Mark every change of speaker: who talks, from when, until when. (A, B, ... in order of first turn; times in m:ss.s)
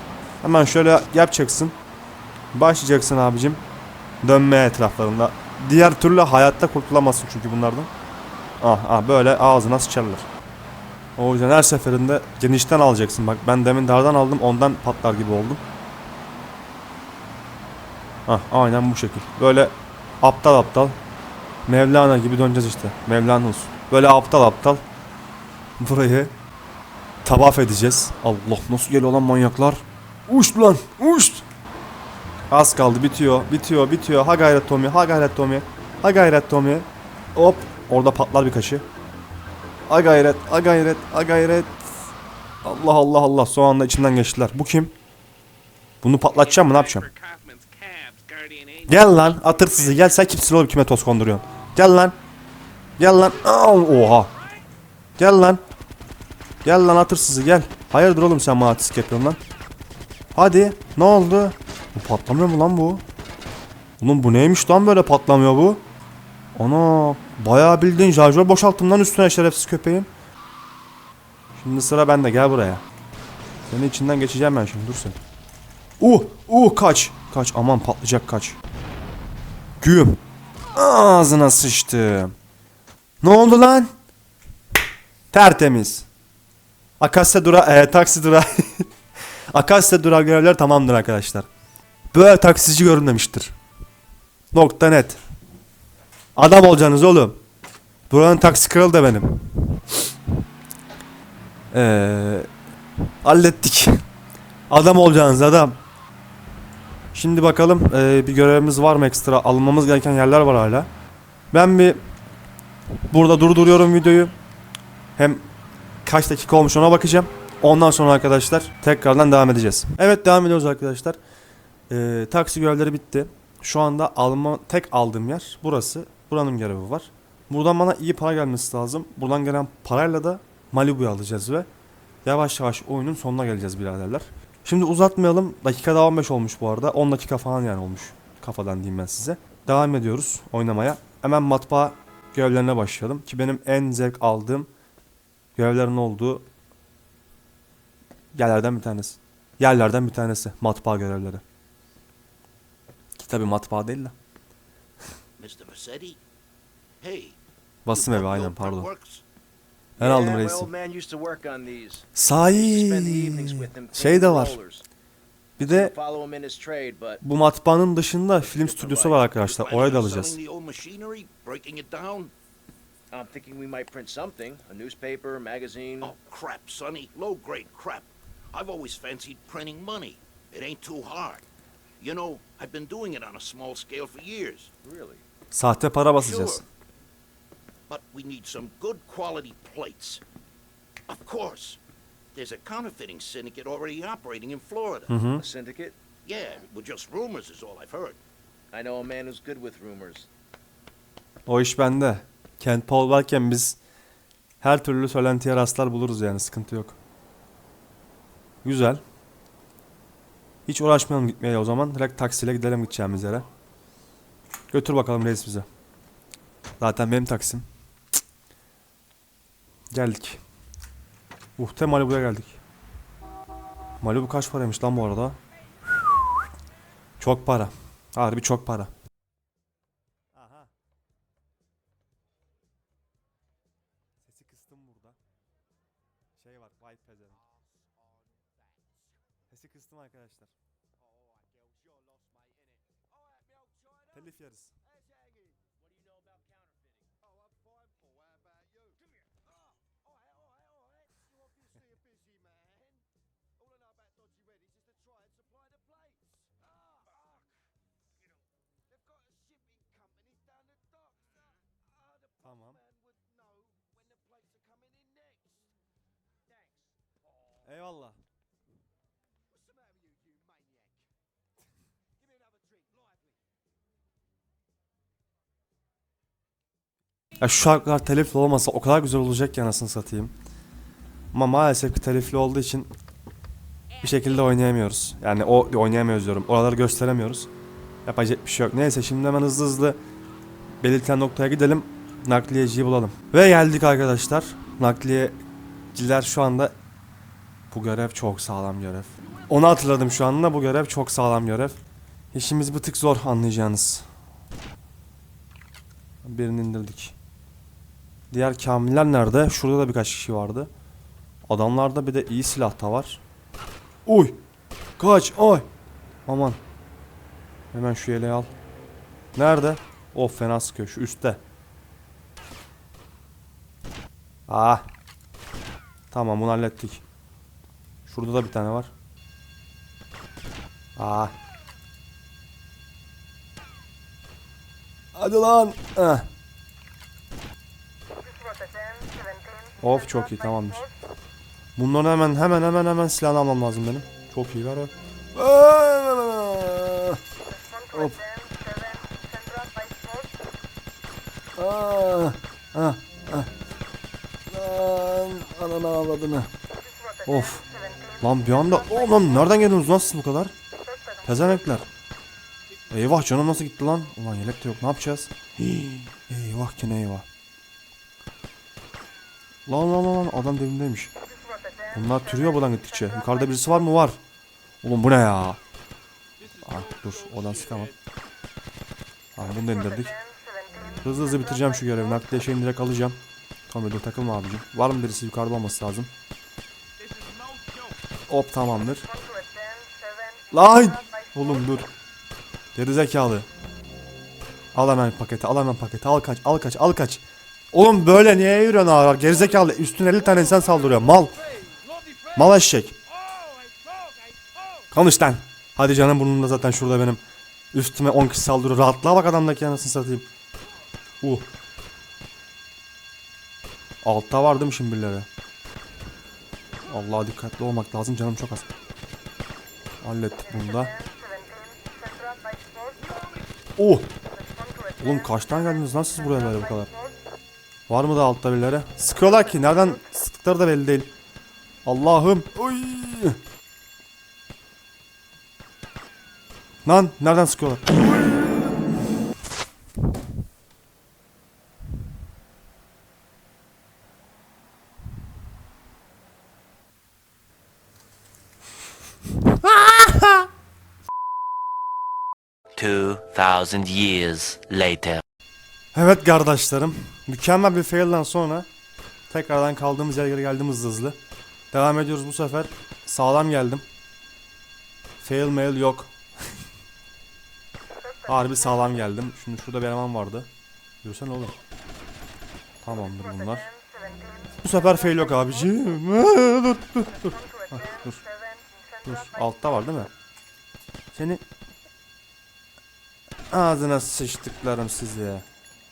0:00.4-0:01.8 A
0:02.5-0:03.6 A
0:04.2-0:07.9 A
0:08.6-0:10.3 A
0:11.2-0:15.6 A
0:18.3-0:21.0 A
0:21.7-0:24.8 A
0:25.8-0:26.3 A
0:27.2-0:31.4 A
0:32.5-0:38.8 A
0:39.9-0:41.7 A
0:42.6-0:44.9 A
0:46.0-0:47.1 A
0:47.1-0:48.3 B
0:48.9-0:52.2 A
0:53.0-0:54.3 A
0:55.2-0:55.6 A
0:56.6-0:59.4 A
1:00.4-1:03.0 A
1:04.0-1:05.8 A
1:06.6-1:10.1 A
1:11.6-1:12.8 A
1:13.7-1:15.2 A
1:16.0-1:18.6 A
1:19.8-1:20.2 A
1:20.7-1:22.3 A
1:23.2-1:23.9 A
1:25.3-1:26.1 A
1:27.0-1:28.9 A
1:29.5-1:31.5 A
1:32.1-1:33.6 A
1:34.5-1:35.2 A
1:36.4-1:37.4 A
1:38.1-1:39.8 A
1:41.7-1:42.5 A
1:43.2-1:44.0 A
1:44.7-1:45.8 A
1:47.1-1:50.9 A
1:51.5-1:52.0 A
1:53.1-1:54.3 A
1:55.2-1:55.4 A
1:56.0-2:01.2 A
2:01.9-2:11.7 A
2:12.2-2:24.7 A
2:25.6-2:26.4 A
2:28.3-2:31.4 A
2:33.2-2:34.2 A
2:35.4-2:36.2 B
2:37.0-2:37.4 B
2:37.8-2:38.9 A
2:37.9-2:39.2 B
2:40.0-2:40.7 A
2:40.0-2:44.9 C
2:42.2-2:44.6 A
2:45.6-2:47.2 C
2:45.6-2:45.9 A
2:47.2-2:50.4 A
2:48.4-2:49.3 C
2:49.4-2:52.3 B
2:53.1-2:56.2 C
2:56.0-3:01.4 B
3:02.0-3:04.7 B
3:04.8-3:05.2 C
3:05.5-3:06.6 A
3:06.2-3:06.6 B
3:07.9-3:10.2 B
3:11.1-3:11.8 B
3:12.4-3:15.1 B
3:15.1-3:15.4 A
3:15.4-3:16.0 C
3:16.2-3:18.2 B
3:18.7-3:20.3 C
3:21.5-3:23.8 A
3:24.6-3:27.0 A
3:28.6-3:29.0 A
3:30.7-3:33.5 A
3:34.7-3:35.7 A
3:36.8-3:37.7 A
3:39.9-3:40.4 A
3:41.6-3:42.6 A
3:44.0-3:45.4 A
3:47.2-3:48.9 A
3:50.3-3:50.7 A
3:54.2-3:55.2 A
3:56.4-3:57.4 A
3:59.5-4:00.5 A
4:01.9-4:02.4 D
4:04.1-4:04.7 A
4:12.3-4:12.6 D
4:14.4-4:14.7 D
4:19.7-4:20.8 D
4:22.4-4:22.8 A
4:23.8-4:25.4 D
4:27.6-4:28.2 A
4:37.4-4:40.3 A
4:41.3-4:42.9 A
4:44.0-4:47.5 A
4:48.1-4:50.0 A
4:50.8-4:55.4 A
4:55.9-4:56.7 A
4:57.7-5:01.8 A
5:02.3-5:04.0 A
5:06.2-5:07.2 A
5:08.3-5:10.7 A
5:11.5-5:13.2 A
5:14.1-5:14.4 A
5:15.0-5:15.7 A
5:16.3-5:16.6 A
5:17.7-5:18.5 A
5:19.4-5:21.4 A
5:24.5-5:24.8 A
5:26.1-5:27.0 A
5:28.1-5:28.9 A
5:31.0-5:31.3 A
5:35.2-5:36.3 A
5:39.8-5:40.9 A
5:41.8-5:47.2 A
5:47.9-5:48.2 A
5:51.6-5:53.5 A
5:54.5-5:56.5 A
5:57.3-5:57.6 A
5:58.2-6:00.5 A
6:01.2-6:01.9 A
6:02.9-6:07.3 A
6:09.7-6:11.1 A
6:11.9-6:14.2 A
6:14.8-6:15.6 A
6:16.6-6:17.9 A
6:19.4-6:20.2 A
6:21.0-6:26.1 A
6:27.0-6:27.8 B
6:28.3-6:29.1 A
6:30.5-6:31.9 A
6:32.8-6:33.5 A
6:34.8-6:37.2 A
6:37.7-6:41.4 A
6:42.3-6:43.0 A
6:44.9-6:47.2 A
6:47.7-6:50.3 A
6:51.2-6:51.5 A
6:54.0-6:55.3 A
6:56.9-6:58.7 A
7:00.0-7:01.0 A
7:03.8-7:04.1 A
7:05.0-7:06.9 A
7:07.9-7:11.1 A
7:11.9-7:13.4 A
7:16.8-7:18.7 A
7:29.5-7:30.4 A
7:32.8-7:35.2 E
7:35.9-7:38.7 A
7:39.3-7:41.2 A
7:41.7-7:43.8 A
7:45.2-7:46.1 A
7:48.3-7:50.5 A
7:51.0-7:51.6 A
7:52.8-7:53.7 A
7:54.6-7:58.2 A
7:59.0-8:00.1 A
8:01.1-8:01.4 A
8:03.5-8:05.4 A